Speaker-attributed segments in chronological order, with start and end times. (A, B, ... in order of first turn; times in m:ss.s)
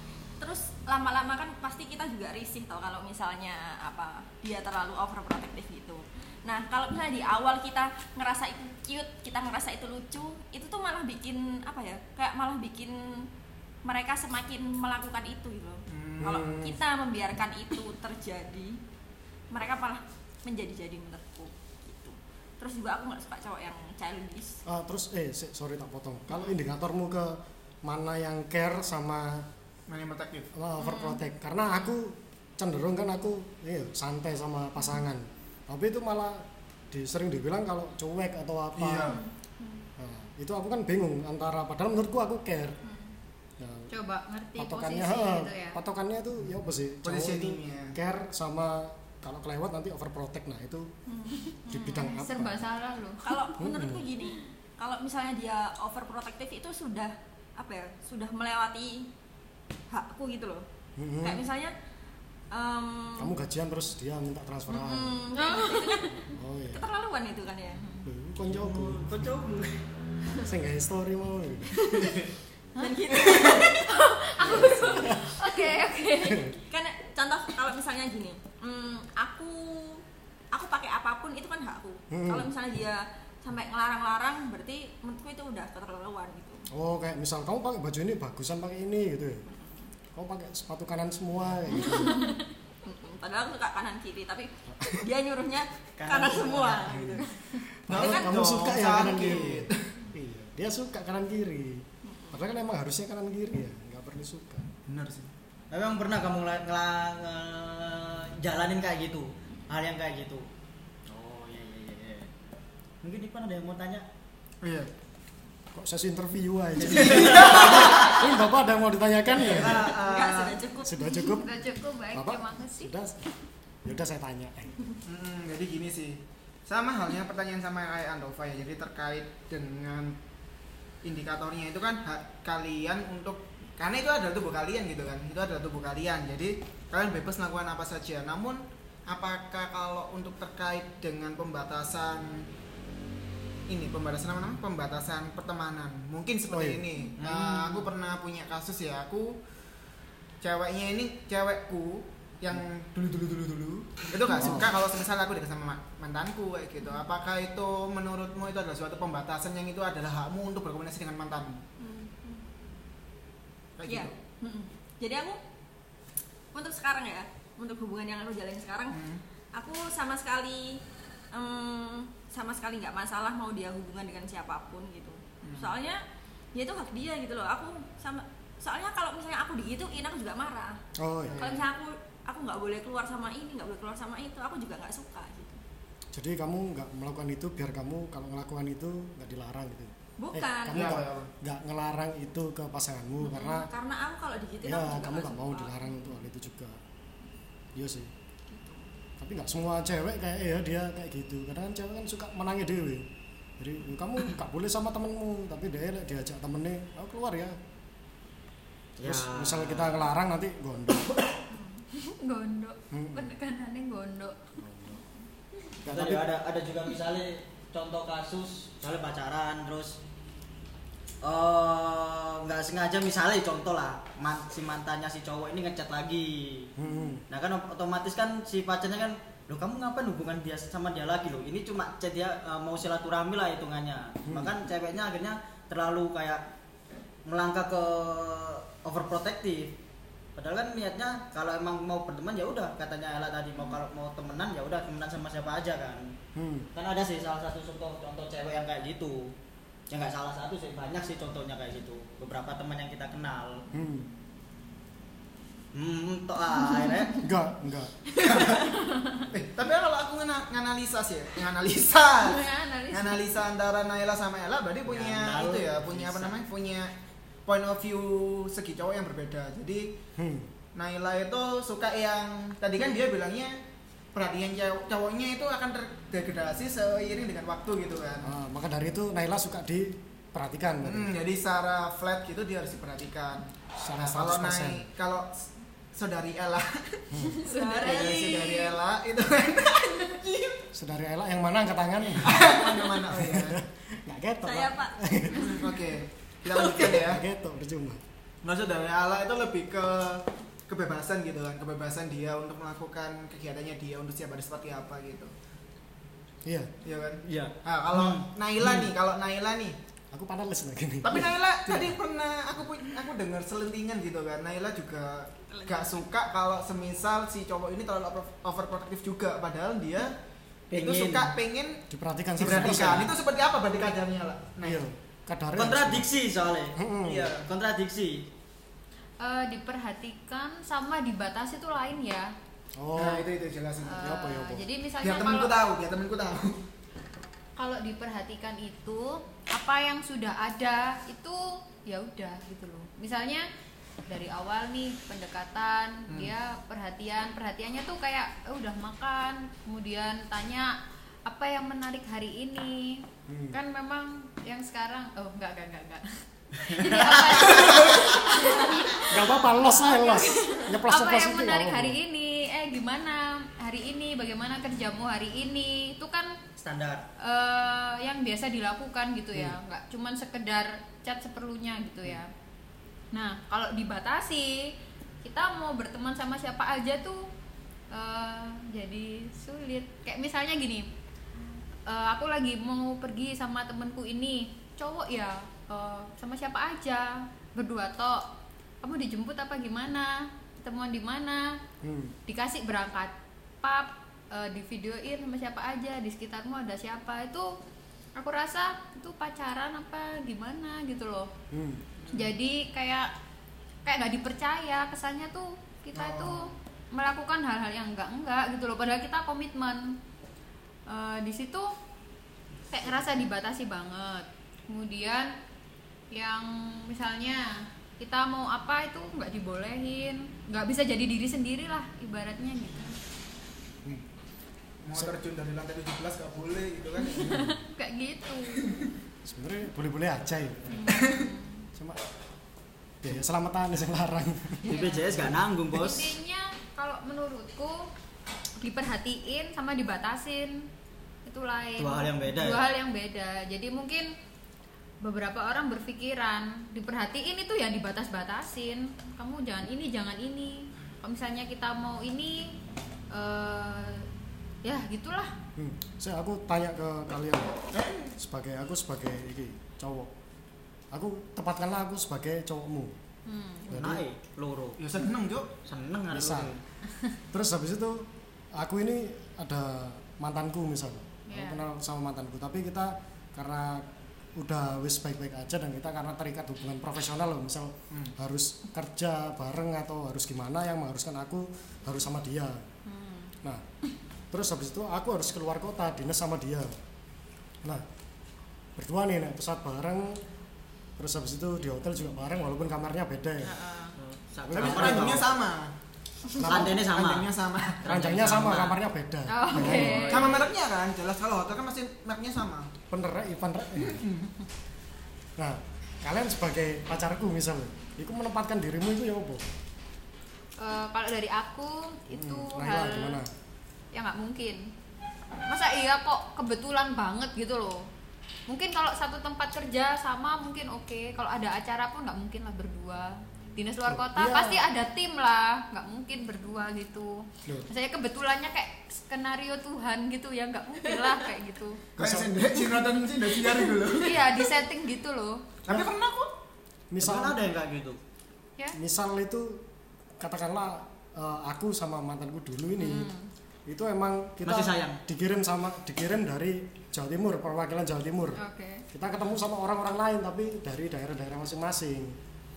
0:00.4-0:13.3 A
0:13.8-0:18.8 A
0:15.9-0:16.4 B
0:16.2-0:16.8 C
0:19.5-0:24.6 A
0:24.6-0:29.4 C
0:29.9-0:30.5 B
0:30.5-0:39.2 C
0:30.8-0:31.2 A
0:38.7-0:39.2 B
0:39.0-0:39.8 A
0:40.0-0:42.8 C
0:42.8-0:43.1 A
0:43.6-0:43.9 C
0:43.9-0:45.8 D
0:44.6-0:50.9 C
0:47.0-0:48.0 B
0:51.1-0:51.4 A
0:51.5-0:53.4 D
0:51.7-0:52.7 C
0:53.2-0:59.1 A
0:53.6-0:54.1 C
0:59.9-1:00.6 A
1:01.0-1:01.4 C
1:01.2-1:01.7 A
1:02.5-1:03.3 A
1:03.2-1:05.2 C
1:04.7-1:06.2 A
1:05.4-1:06.2 D
1:06.2-1:06.8 C
1:06.7-1:07.8 A
1:08.0-1:09.2 C
1:08.5-1:09.8 E
1:10.4-1:12.0 C
1:11.8-1:12.2 A
1:12.8-1:16.4 D
1:12.8-1:15.6 A
1:14.4-1:15.1 E
1:15.0-1:15.3 C
1:16.2-1:16.6 C
1:16.6-1:26.7 A
1:22.1-1:22.5 C
1:26.7-1:29.4 C
1:29.5-1:29.9 A
1:30.1-1:32.2 C
1:31.7-1:32.3 A
1:32.8-1:37.4 A
1:36.0-1:37.0 E
1:37.8-1:44.7 C
1:37.9-1:39.9 B
1:37.9-1:39.5 A
1:42.0-1:42.4 A
1:44.9-1:45.3 B
1:45.7-1:50.4 E
1:51.1-1:52.3 E
1:53.0-1:54.0 E
1:54.6-1:54.9 B
1:55.7-1:59.9 C
1:56.8-1:58.2 E
1:56.9-1:58.0 B
1:59.4-2:00.6 B
1:59.6-2:01.4 A
2:00.8-2:01.5 C
2:01.3-2:02.9 D
2:02.1-2:03.3 C
2:03.8-2:04.9 C
2:05.0-2:10.2 B
2:11.0-2:22.4 B
2:23.7-2:29.4 B
2:26.5-2:26.8 C
2:27.2-2:27.9 D
2:30.4-2:41.6 B
2:34.4-2:34.7 C
2:41.8-2:42.4 A
2:43.8-2:44.1 B
2:43.8-2:45.4 A
2:46.5-2:49.0 A
2:48.9-2:49.2 B
2:49.6-2:50.8 A
2:51.3-2:56.0 A
2:55.4-2:55.7 B
2:56.5-3:00.8 A
3:01.0-3:01.4 C
3:01.2-3:01.6 B
3:01.4-3:05.6 A
3:06.1-3:13.7 C
3:10.2-3:11.0 A
3:10.7-3:11.3 B
3:13.2-3:16.0 A
3:14.6-3:16.8 C
3:17.7-3:18.1 C
3:18.5-3:18.9 A
3:19.2-3:23.1 C
3:23.6-3:27.6 C
3:29.0-3:30.0 E
3:29.0-3:31.2 C
3:31.5-3:31.8 A
3:32.0-3:34.4 D
3:32.9-3:33.4 C
3:34.6-3:35.0 C
3:35.8-3:36.2 C
3:35.8-3:40.0 E
3:41.2-3:46.7 E
3:46.8-3:47.2 C
3:47.3-3:56.4 E
3:54.3-3:54.5 C
3:57.2-3:59.8 E
4:00.4-4:06.1 E
4:06.4-4:06.7 C
4:06.7-4:09.3 E
4:09.9-4:13.6 E
4:13.7-4:14.1 C
4:15.7-4:17.2 E
4:17.2-4:18.0 C
4:18.2-4:18.6 B
4:19.3-4:26.9 B
4:22.2-4:23.3 D
4:24.8-4:26.4 E
4:27.4-4:30.0 B
4:30.2-4:30.5 C
4:30.7-4:33.6 B
4:34.1-4:38.3 B
4:38.2-4:41.1 C
4:40.8-4:47.0 B
4:43.8-4:44.8 C
4:47.1-4:47.4 C
4:47.4-4:48.4 D
4:47.4-4:48.7 A
4:47.7-4:50.2 B
4:50.7-4:55.6 C
4:52.2-4:53.6 B
4:54.4-4:55.0 A
4:55.4-4:57.2 B
4:56.5-4:57.0 A
4:56.6-4:58.0 C
4:58.4-5:05.3 B
5:06.4-5:06.7 C
5:06.8-5:09.8 B
5:07.2-5:08.9 E
5:10.1-5:11.9 C
5:11.0-5:20.1 B
5:15.5-5:15.9 A
5:20.7-5:21.3 E
5:20.7-5:21.8 B
5:21.9-5:23.2 C
5:22.4-5:24.8 B
5:22.5-5:23.1 E
5:24.6-5:26.1 C
5:25.6-5:28.3 E
5:26.8-5:27.3 C
5:27.1-5:27.4 B
5:29.2-5:32.3 D
5:32.8-5:33.3 C
5:32.9-5:34.1 B
5:33.8-5:35.5 D
5:34.0-5:34.6 C
5:35.0-5:36.6 B
5:37.6-5:43.5 D
5:44.0-6:06.4 D
5:53.3-5:53.6 C
5:56.6-5:58.0 E
5:59.0-6:02.0 C
6:06.6-6:07.0 E
6:07.2-6:12.3 D
6:13.1-6:17.3 D
6:17.9-6:20.9 D
6:21.9-6:28.2 D
6:28.8-6:31.6 D
6:31.8-6:32.2 C
6:32.3-6:37.5 D
6:38.2-6:41.3 D
6:41.5-6:41.8 C
6:42.1-6:43.1 D
6:43.8-6:50.0 D
6:45.9-6:46.5 B
6:50.9-6:51.7 D
6:52.7-6:55.3 D
6:56.1-7:02.9 D
7:04.8-7:07.5 B
7:07.1-7:08.6 D
7:09.2-7:10.9 C
7:10.7-7:11.6 D
7:13.0-7:15.3 C
7:14.6-7:17.9 D
7:14.6-7:16.1 E
7:18.6-7:20.7 D
7:21.2-7:24.1 D
7:21.8-7:22.6 E
7:25.0-7:32.6 D
7:33.1-7:34.1 D
7:34.6-7:35.3 D
7:35.6-7:37.6 C
7:37.7-7:38.1 B
7:38.2-7:40.1 C
7:40.9-7:43.0 C
7:43.3-7:43.7 D
7:43.7-7:44.8 E
7:43.7-7:44.0 C
7:44.8-7:45.6 B
7:45.6-7:46.6 E
7:46.1-7:46.6 C
7:47.3-8:02.6 C
7:51.3-7:51.6 D
8:02.8-8:03.3 D
8:04.3-8:06.7 C
8:08.8-8:10.2 C
8:11.0-8:13.6 C
8:13.4-8:13.9 A
8:14.0-8:15.4 E
8:14.5-8:15.2 C
8:14.5-8:15.7 B
8:16.4-8:16.8 C
8:16.4-8:17.3 E
8:16.4-8:17.8 B
8:17.8-8:18.8 E
8:17.8-8:20.2 C
8:19.3-8:20.3 D
8:19.6-8:20.5 E
8:20.1-8:22.7 B
8:22.9-8:24.0 C
8:23.8-8:24.3 B
8:25.4-8:29.5 C
8:30.6-8:33.2 D
8:32.1-8:33.3 C
8:33.9-8:34.7 D
8:35.5-8:37.9 D
8:38.5-8:51.8 D
8:43.8-8:44.6 C
8:52.0-8:52.6 C
8:52.0-8:54.5 B
8:53.9-8:55.4 D
8:55.6-8:56.3 B
8:55.7-8:55.9 C
8:56.9-8:57.4 C
8:57.0-8:58.0 E
8:58.7-8:59.6 C
9:00.2-9:03.1 C
9:02.8-9:03.3 D
9:03.7-9:12.2 C
9:04.4-9:05.0 E
9:08.4-9:08.8 D